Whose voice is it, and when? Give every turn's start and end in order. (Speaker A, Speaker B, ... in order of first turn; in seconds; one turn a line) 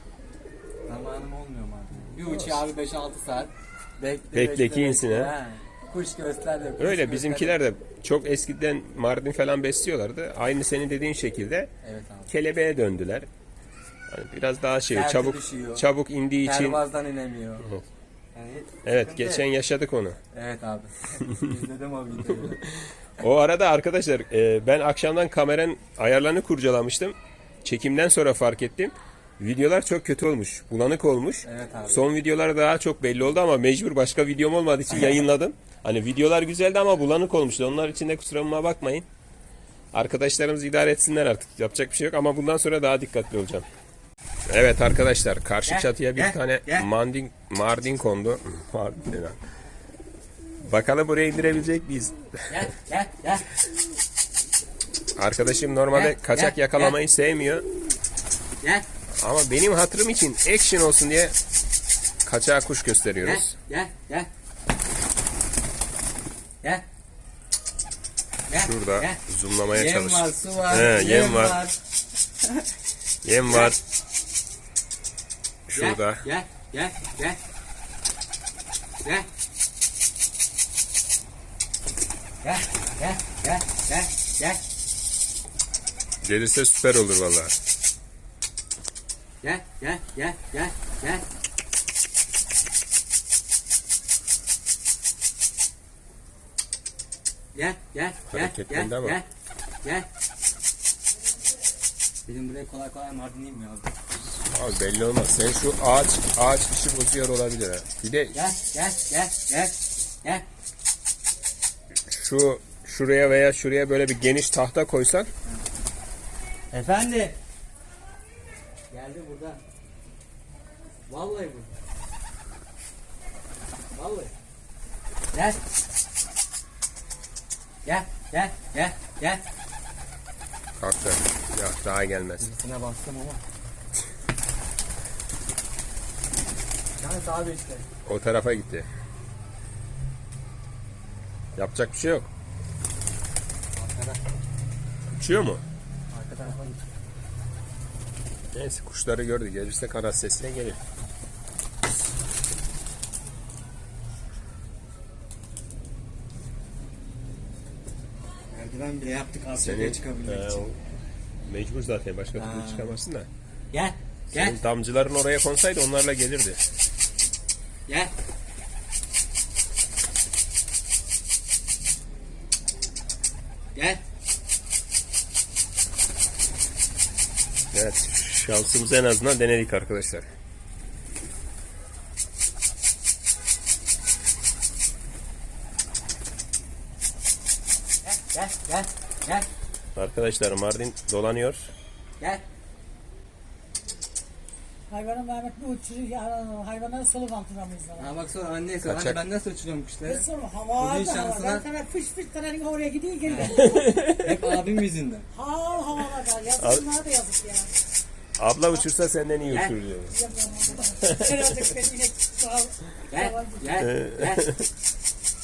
Speaker A: 0.9-7.6
Speaker B: 2.1-2.6
Speaker B: 4.3-5.3
Speaker B: 6.8-11.7
Speaker A: 11.8-12.3
Speaker B: 12.3-13.3
Speaker B: 14.1-16.8
Speaker A: 14.9-17.7
Speaker A: 18.4-19.5
Speaker B: 18.8-20.2
Speaker A: 20.3-22.6
Speaker B: 22.4-39.1
Speaker A: 31.4-32.0
Speaker A: 34.9-35.2
Speaker B: 39.9-43.6
Speaker B: 44.5-49.4
Speaker A: 45.6-46.9
Speaker B: 50.6-52.6
Speaker A: 52.5-53.5
Speaker B: 55.1-57.6
Speaker A: 55.9-57.0
Speaker B: 59.2-61.4
Speaker B: 62.2-63.5
Speaker A: 63.2-64.3
Speaker A: 68.5-69.2
Speaker B: 68.6-71.6
Speaker A: 69.7-71.8
Speaker B: 73.2-73.8
Speaker A: 73.5-73.8
Speaker B: 75.7-76.2
Speaker A: 75.8-77.4
Speaker A: 82.4-84.6
Speaker B: 86.2-87.5
Speaker A: 89.4-91.2
Speaker A: 97.5-99.3
Speaker B: 98.3-99.2
Speaker A: 102.2-104.0
Speaker B: 104.5-108.3
Speaker A: 108.3-110.5
Speaker B: 112.1-115.3
Speaker A: 116.7-117.4
Speaker A: 118.9-119.6
Speaker A: 121.1-121.7
Speaker A: 124.0-124.3
Speaker A: 125.3-125.6
Speaker A: 127.8-129.4
Speaker B: 130.8-132.5
Speaker A: 132.4-133.4
Speaker A: 137.0-137.8
Speaker B: 138.1-138.9
Speaker B: 141.6-142.3
Speaker A: 143.8-144.2
Speaker B: 145.1-145.6
Speaker A: 146.1-146.8
Speaker B: 148.5-150.8
Speaker A: 158.5-160.7
Speaker B: 159.6-160.8
Speaker B: 161.4-163.3
Speaker A: 162.3-162.9
Speaker A: 163.7-164.6
Speaker B: 164.3-166.6
Speaker A: 173.8-174.0
Speaker B: 177.7-180.3
Speaker A: 188.0-189.5
Speaker B: 190.0-191.7
Speaker C: 194.9-198.1
Speaker A: 198.0-200.3
Speaker B: 198.8-199.2
Speaker C: 200.1-203.9
Speaker A: 200.8-201.7
Speaker A: 203.2-205.3
Speaker B: 203.4-204.5
Speaker C: 205.3-207.7
Speaker B: 206.6-206.8
Speaker B: 208.4-210.1
Speaker A: 209.5-209.8
Speaker C: 210.1-213.8
Speaker B: 211.0-211.7
Speaker A: 213.1-214.5
Speaker B: 213.8-214.7